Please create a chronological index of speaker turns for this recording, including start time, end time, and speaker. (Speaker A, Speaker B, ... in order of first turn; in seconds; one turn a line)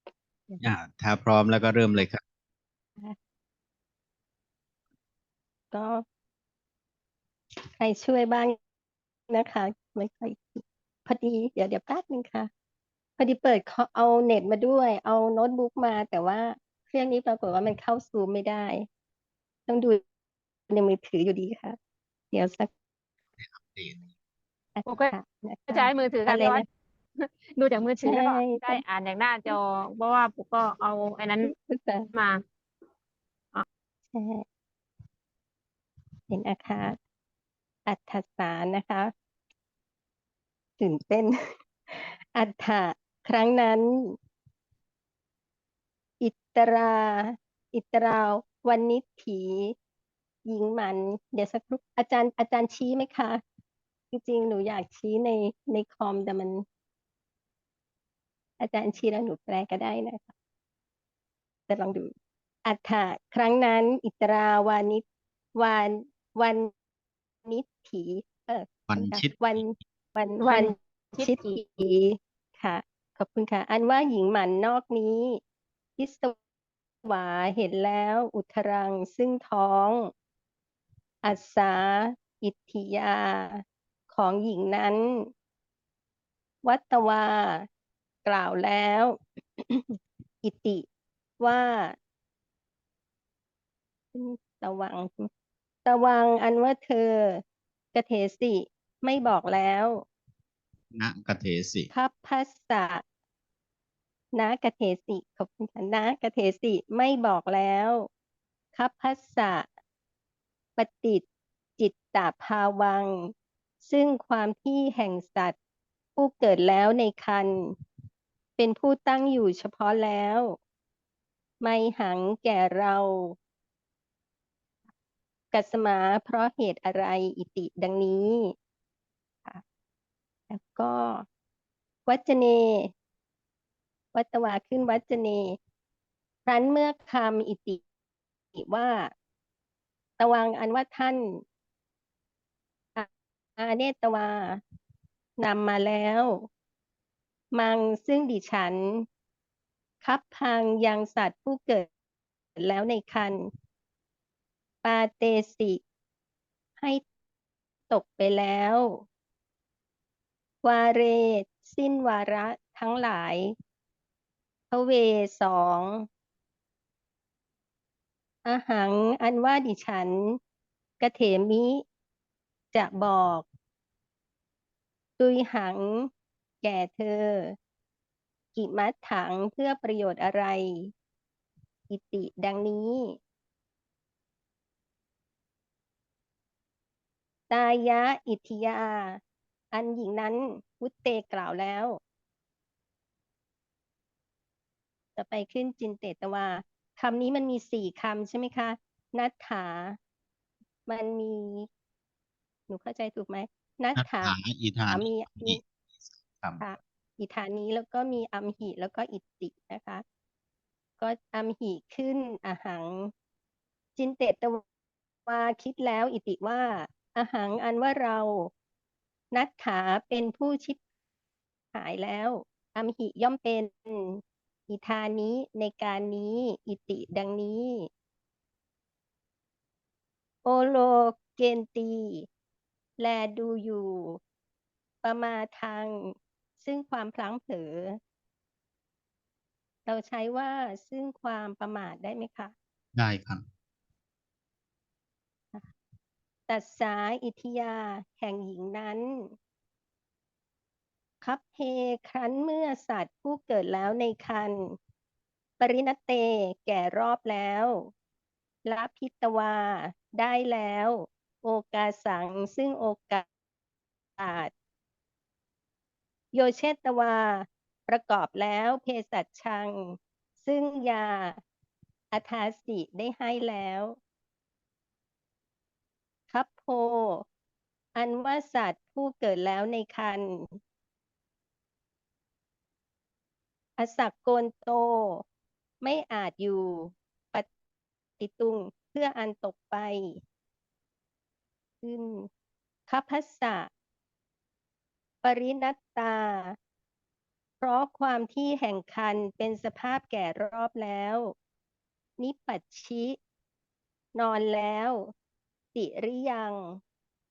Speaker A: 0.6-2.2
Speaker B: 5.7-6.0
Speaker B: 7.8-8.6
Speaker B: 9.3-12.5
Speaker B: 13.2-18.9
Speaker B: 19.7-20.0
Speaker B: 20.7-21.8
Speaker B: 22.3-22.7
Speaker A: 23.4-24.1
Speaker B: 24.8-26.6
Speaker C: 24.9-25.1
Speaker C: 25.7-26.6
Speaker C: 27.2-31.5
Speaker B: 28.0-28.8
Speaker B: 31.4-32.1
Speaker C: 32.1-32.4
Speaker B: 34.1-34.4
Speaker B: 36.3-37.0
Speaker B: 37.9-39.1
Speaker B: 40.8-41.4
Speaker B: 41.9-44.1
Speaker B: 46.2-49.7
Speaker B: 50.5-53.4
Speaker B: 54.1-56.6
Speaker B: 58.6-60.3
Speaker B: 61.7-62.1
Speaker B: 62.6-65.0
Speaker B: 65.5-66.7
Speaker B: 67.4-75.4
Speaker A: 68.9-69.6
Speaker C: 70.4-71.5
Speaker B: 76.0-76.3
Speaker B: 77.0-80.1
Speaker B: 81.2-85.3
Speaker B: 86.6-87.7
Speaker B: 88.2-90.8
Speaker B: 91.4-92.0
Speaker B: 94.1-95.3
Speaker B: 95.8-97.4
Speaker B: 97.9-100.0
Speaker A: 100.9-101.9
Speaker B: 101.9-103.0
Speaker B: 104.3-108.1
Speaker B: 108.7-109.7
Speaker B: 110.8-111.2
Speaker B: 111.8-113.3
Speaker B: 113.8-115.5
Speaker B: 116.2-117.7
Speaker B: 118.6-120.6
Speaker B: 121.6-123.3
Speaker B: 125.5-128.5
Speaker B: 130.5-131.2
Speaker B: 132.1-132.9
Speaker B: 134.1-135.6
Speaker B: 136.4-137.8
Speaker B: 138.6-139.1
Speaker B: 140.2-141.4
Speaker B: 142.9-144.6
Speaker B: 145.4-146.5
Speaker B: 147.5-149.1
Speaker B: 150.0-151.9
Speaker B: 152.6-153.5
Speaker B: 154.8-155.8
Speaker B: 157.9-159.0
Speaker B: 160.6-163.5
Speaker B: 164.7-166.1
Speaker B: 168.4-170.4
Speaker B: 171.0-171.8
Speaker B: 172.7-173.4
Speaker B: 175.2-176.1
Speaker B: 176.6-177.6
Speaker B: 178.5-180.9
Speaker B: 181.9-183.2
Speaker B: 187.5-189.2
Speaker B: 189.7-192.0
Speaker B: 195.2-200.0
Speaker B: 200.9-201.7
Speaker B: 202.7-204.3
Speaker A: 203.9-206.6
Speaker B: 204.9-205.6
Speaker B: 206.6-210.0
Speaker B: 211.0-213.1
Speaker B: 213.9-214.6
Speaker B: 215.3-218.5
Speaker B: 219.3-220.8
Speaker B: 221.7-227.9
Speaker B: 230.4-232.3
Speaker B: 233.0-234.2
Speaker B: 235.0-238.0
Speaker B: 239.8-242.5
Speaker A: 242.9-243.4
Speaker B: 246.5-249.3
Speaker B: 251.2-254.8
Speaker B: 255.6-257.9
Speaker B: 258.6-263.2
Speaker B: 264.2-264.5
Speaker B: 266.3-271.4
Speaker B: 272.1-274.0
Speaker B: 276.3-277.2
Speaker B: 277.9-280.6
Speaker B: 283.8-285.2
Speaker B: 285.8-287.5
Speaker B: 288.2-290.2
Speaker B: 291.8-292.3
Speaker B: 292.9-293.7
Speaker B: 295.2-296.6
Speaker B: 297.6-301.3
Speaker B: 302.2-303.2
Speaker B: 304.1-305.1
Speaker B: 305.7-306.8